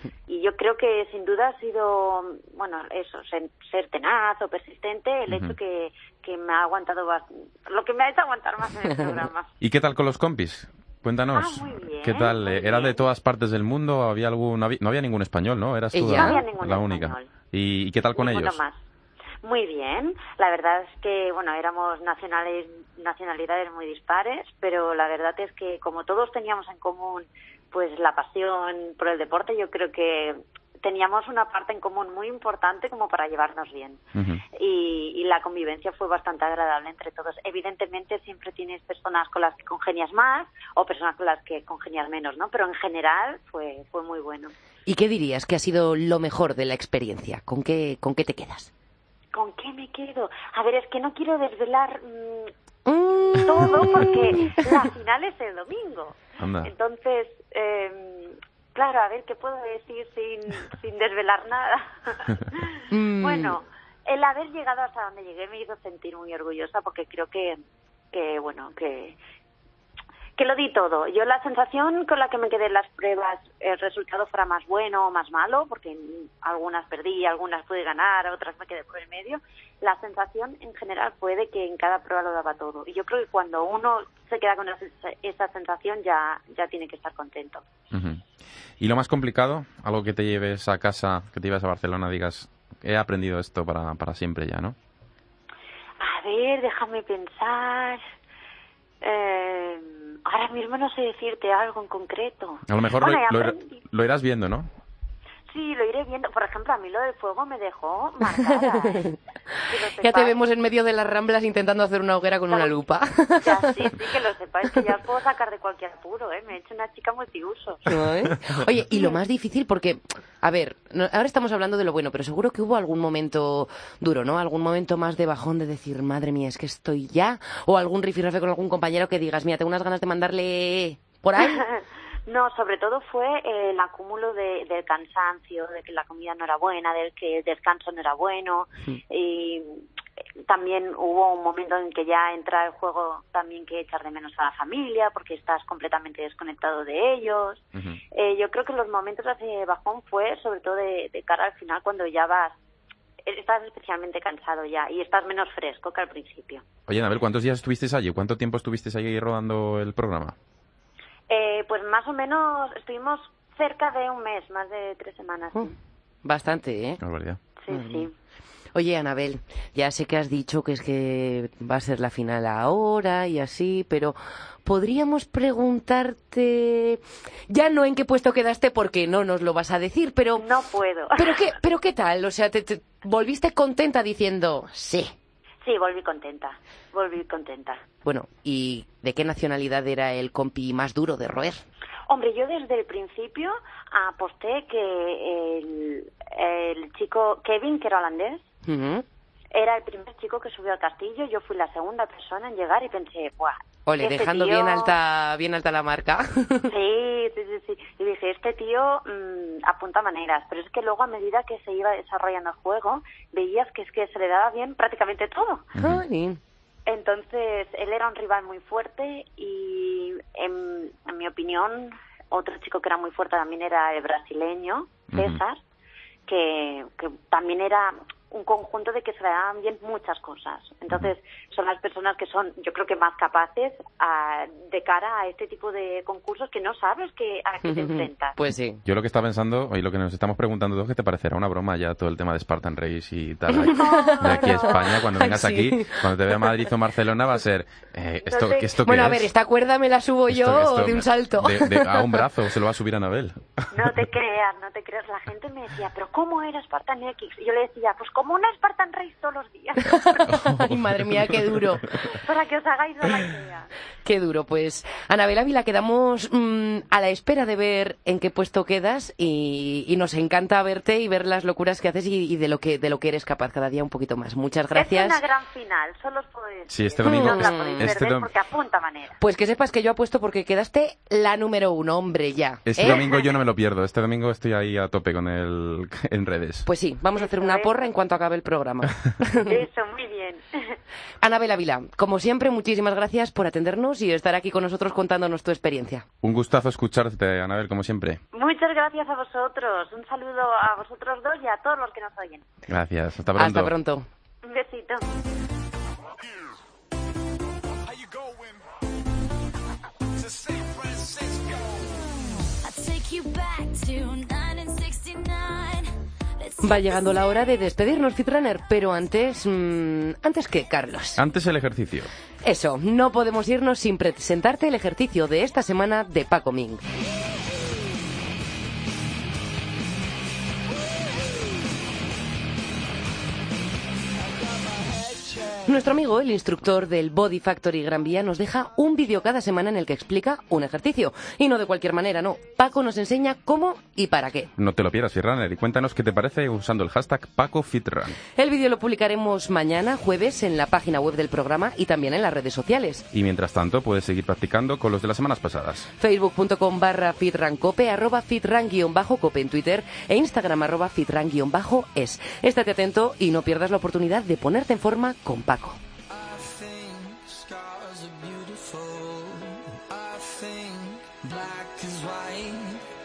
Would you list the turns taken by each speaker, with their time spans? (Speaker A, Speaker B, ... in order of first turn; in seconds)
Speaker A: 0.3-9.5, 11.3-13.0, 16.1-17.3, 18.2-18.8, 19.4-34.0, 34.5-44.5, 49.3-52.5, 53.3-67.6, 68.1-69.2, 70.4-87.6, 96.0-98.0, 99.0-103.8, 105.5-109.1, 109.7-110.4, 112.5-112.8, 113.4-117.9, 131.4-139.8, 140.5-152.6, 153.2-156.6, 161.3-165.7, 167.6-168.1, 180.4-181.4, 185.6-187.8, 192.1-198.4, 199.5-204.9, 206.7-215.7, 216.9-225.6, 226.3-238.4, 243.7-244.9, 248.2-248.8, 253.7-260.4, 262.1-263.7, 274.7-279.2, 282.9-283.3, 287.1-287.9, 289.4-290.7, 298.3-302.4, 304.4-305.1
Speaker B: 5.3-5.5, 9.6-18.6, 34.1-34.4, 56.4-56.7, 87.9-88.2, 88.8-94.8, 102.7-104.7, 156.9-160.4, 167.0-167.4, 215.8-216.0, 225.1-225.4, 238.8-249.2, 250.3-253.7, 260.4-261.4, 276.7-278.3, 282.7-286.7, 296.2-298.2, 302.7-303.7, 321.2-322.1, 344.6-348.2, 353.1-355.9
Speaker C: 15.9-16.4, 44.9-48.7, 52.9-54.7, 62.9-63.6, 108.6-109.1, 110.0-113.7, 117.9-131.6, 166.2-167.0, 167.7-168.1, 168.7-180.4, 181.2-185.1, 188.1-191.6, 198.7-199.1, 203.9-206.7, 215.8-216.4, 237.6-238.8, 243.5-246.4, 248.8-252.3, 260.0-262.0, 264.1-275.2, 277.0-277.9, 279.2-283.0, 286.6-289.6, 291.2-296.1, 303.4-304.1, 316.6-321.2, 322.4-326.8, 335.7-344.5, 348.4-353.1, 356.0-365.8
Speaker D: 312.6-317.7
Speaker E: 334.5-335.9, 366.1-372.8